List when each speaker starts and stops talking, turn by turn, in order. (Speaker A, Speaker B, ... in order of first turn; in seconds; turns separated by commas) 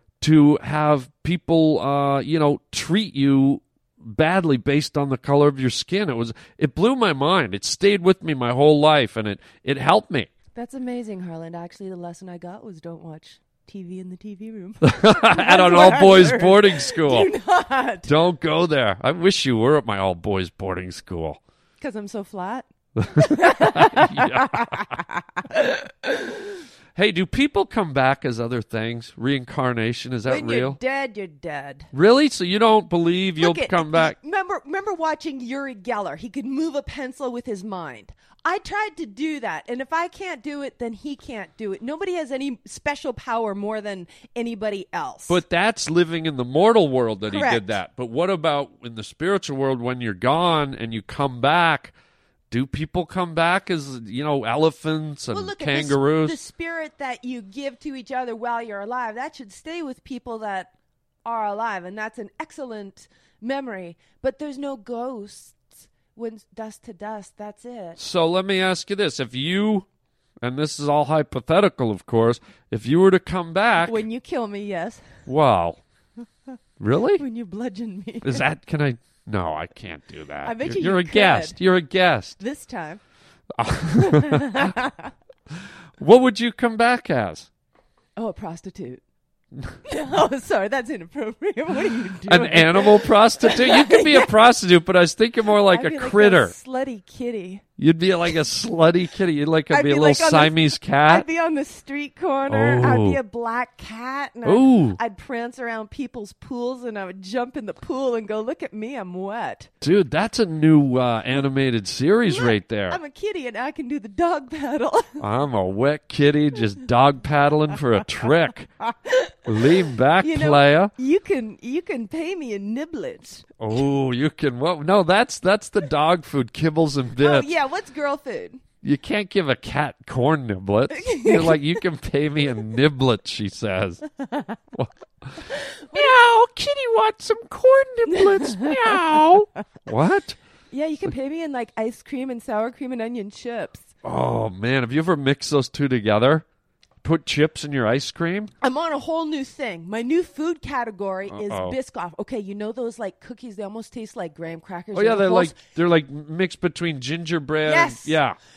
Speaker A: 0.2-10.3, Speaker B: 10.5-18.1, Speaker A: 14.8-17.3, Speaker A: 18.1-21.4, Speaker B: 21.8-26.6, Speaker A: 23.0-24.9, Speaker A: 26.9-30.8, Speaker B: 30.3-31.9, Speaker A: 31.9-34.1, Speaker B: 33.4-45.4, Speaker A: 45.3-51.9, Speaker B: 47.3-47.8, Speaker A: 52.5-56.4, Speaker B: 55.3-60.7, Speaker B: 61.2-68.0, Speaker A: 68.0-69.8, Speaker A: 70.4-74.0, Speaker B: 73.8-75.1, Speaker A: 75.2-75.8, Speaker A: 76.8-77.2, Speaker B: 77.1-78.4, Speaker A: 78.2-82.4, Speaker B: 80.4-81.6, Speaker B: 82.4-83.0, Speaker A: 83.6-84.8, Speaker B: 84.0-85.1, Speaker A: 86.0-87.5, Speaker B: 88.2-89.0, Speaker B: 89.8-94.3, Speaker A: 92.3-96.5, Speaker B: 95.5-97.6, Speaker A: 97.8-101.2, Speaker B: 99.7-109.7, Speaker A: 102.5-103.2, Speaker A: 104.4-105.0, Speaker A: 109.8-113.0, Speaker B: 112.3-115.2, Speaker A: 115.2-118.7, Speaker B: 118.8-119.3, Speaker A: 119.5-120.9, Speaker B: 120.2-123.5, Speaker A: 123.6-127.5, Speaker B: 127.2-128.6, Speaker A: 128.8-134.0, Speaker B: 130.9-131.8, Speaker B: 134.2-134.6, Speaker A: 134.7-140.4, Speaker B: 135.5-136.2, Speaker B: 138.1-139.2, Speaker B: 140.7-143.9, Speaker A: 144.0-146.4, Speaker A: 147.0-148.5, Speaker B: 148.6-155.6, Speaker A: 151.3-151.8, Speaker A: 154.9-158.4, Speaker B: 157.6-158.2